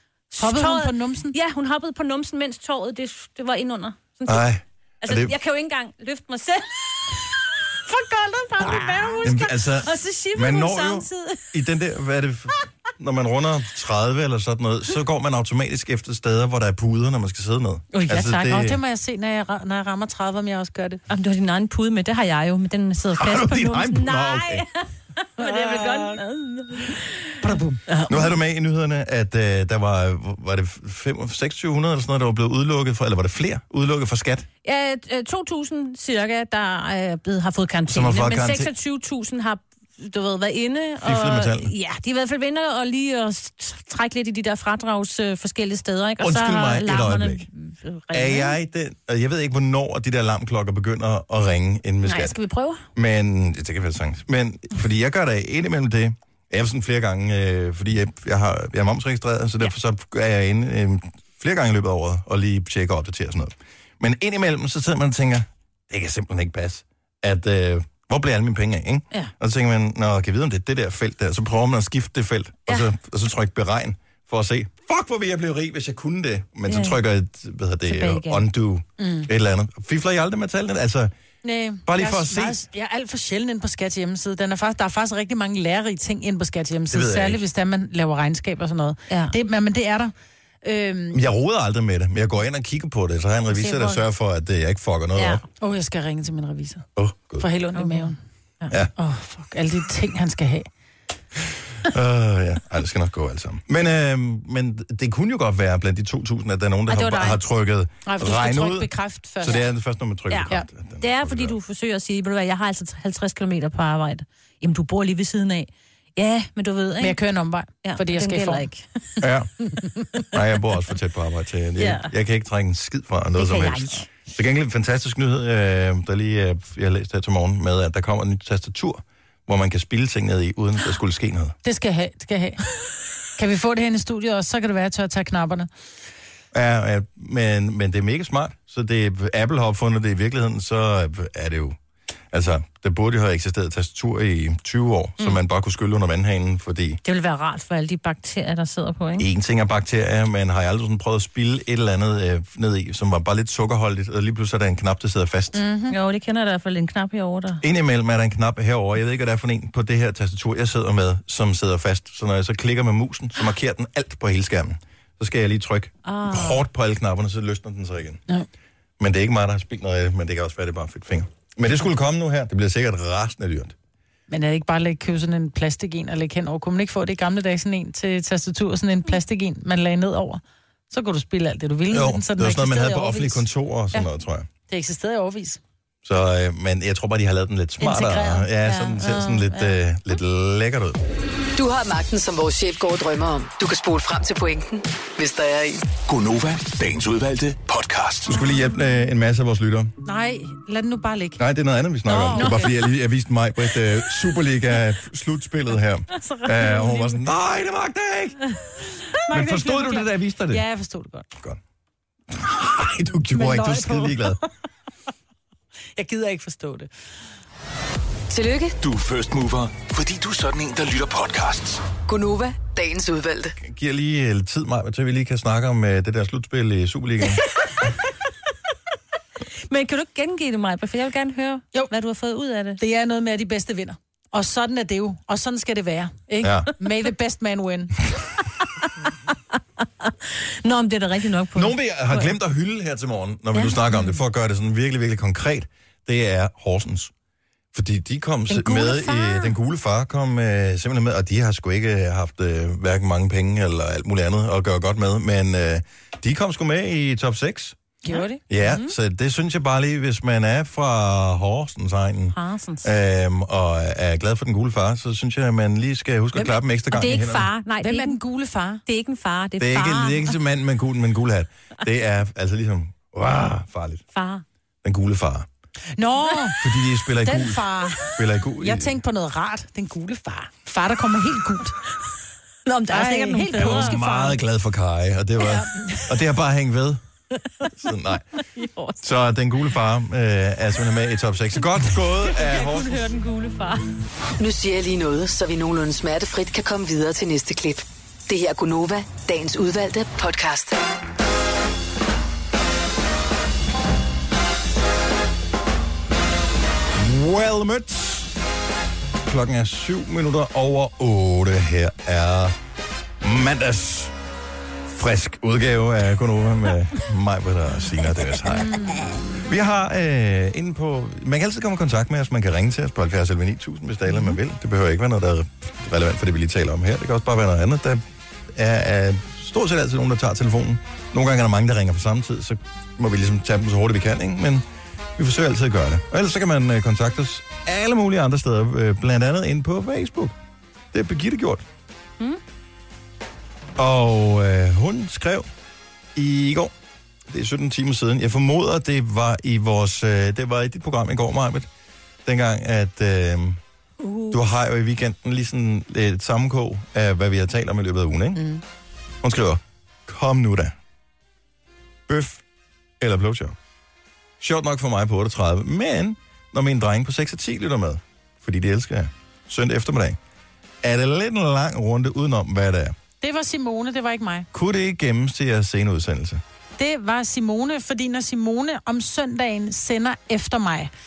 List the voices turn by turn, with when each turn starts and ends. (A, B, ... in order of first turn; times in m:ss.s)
0:00.3-0:04.4 A
0:00.4-0:01.3 B
0:04.2-0:05.3 C
0:05.0-0:07.2 A
0:07.9-0:09.2 B
0:07.9-0:11.4 A
0:09.2-0:18.8 C
0:17.9-0:18.6 A
0:18.1-0:21.0 B
0:21.1-0:28.3 A
0:23.2-0:24.6 C
0:25.4-0:26.2 B
0:27.4-0:27.8 B
0:28.1-0:34.4 C
0:34.6-0:48.6 A
0:37.9-0:38.7 C
0:41.0-0:41.7 C
0:46.2-0:47.5 C
0:48.1-0:52.4 C
0:52.0-0:52.8 A
0:52.9-1:21.1 C
1:16.7-1:17.0 A
1:17.8-1:18.4 A
1:19.0-1:19.3 B
1:21.4-1:31.2 B
1:21.8-1:22.6 C
1:26.9-1:27.4 C
1:29.1-1:29.4 A
1:31.1-1:35.4 C
1:35.1-1:35.4 A
1:35.6-1:36.8 B
1:37.0-1:37.4 C
1:37.4-1:38.2 B
1:37.7-1:38.7 A
1:39.0-1:40.7 B
1:41.8-1:51.6 C
1:46.9-1:47.4 B
1:48.0-1:49.7 B
1:50.3-1:57.2 A
1:57.0-1:58.7 B
1:57.8-1:59.2 A
1:59.2-1:59.5 C
2:00.3-2:11.6 C
2:01.8-2:02.1 A
2:03.4-2:04.1 A
2:11.6-2:12.7 B
2:13.4-2:15.7 B
2:16.5-2:21.8 C
2:22.3-2:27.0 C
2:27.0-2:29.3 A
2:29.2-2:35.6 C
2:35.5-2:36.0 B
2:35.9-2:37.6 A
2:37.6-2:48.2 C
2:46.0-2:46.6 A
2:49.0-2:53.7 C
2:54.3-3:04.1 B
3:01.9-3:04.5 C
3:04.7-3:05.6 B
3:06.0-3:11.0 C
3:07.8-3:09.8 B
3:11.6-3:15.8 D
3:16.0-3:18.3 E
3:18.3-3:19.9 C
3:20.0-3:21.4 B
3:21.4-3:28.4 C
3:22.0-3:22.8 B
3:22.3-3:22.8 A
3:26.2-3:27.1 B
3:29.1-3:31.3 B
3:29.3-3:30.6 C
3:32.3-3:34.4 C
3:33.3-3:34.4 B
3:36.0-3:36.9 B
3:38.3-3:38.8 D
3:38.8-3:41.8 E
3:42.0-3:43.6 D
3:43.6-3:47.4 C
3:49.6-3:52.8 A
3:52.8-3:58.1 B
3:56.4-3:56.7 C
3:59.8-4:02.4 A
4:01.5-4:07.1 C
4:03.6-4:04.0 A
4:07.7-4:17.8 C
4:08.5-4:09.6 A
4:18.0-4:18.4 B
4:18.1-4:19.0 A
4:18.5-4:27.5 C
4:22.3-4:22.9 A
4:26.9-4:28.2 A
4:27.8-4:28.8 B
4:28.8-4:30.4 A
4:29.6-4:34.0 C
4:34.1-4:34.4 A
4:34.8-4:35.5 C
4:35.9-4:36.6 B
4:36.6-4:39.0 C
4:37.2-4:41.8 B
4:42.6-4:44.0 A
4:42.9-4:44.4 B
4:43.5-4:47.0 C
4:45.4-4:46.1 B
4:47.7-4:48.3 C
4:48.5-4:49.0 A
4:49.0-4:53.0 C
4:51.9-4:53.9 A
4:54.4-5:00.8 D
5:06.9-5:08.3 C
5:09.2-5:12.5 C
5:13.2-5:14.1 C
5:14.9-5:18.8 C
5:18.6-5:19.1 B
5:19.4-5:28.0 C
5:28.5-5:34.6 C
5:35.2-5:40.3 C
5:40.9-5:41.6 C
5:43.8-5:45.5 C
5:46.1-5:46.7 C
5:47.3-5:51.7 C
5:52.2-5:53.6 C
5:54.0-5:54.4 A
5:54.3-5:58.4 C
5:58.4-5:58.6 B
5:59.2-6:00.7 C
6:02.1-6:02.4 C
6:03.0-6:03.6 C
6:04.4-6:10.2 C
6:10.8-6:12.9 C
6:13.2-6:14.5 B
6:14.5-6:16.4 C
6:16.8-6:20.9 B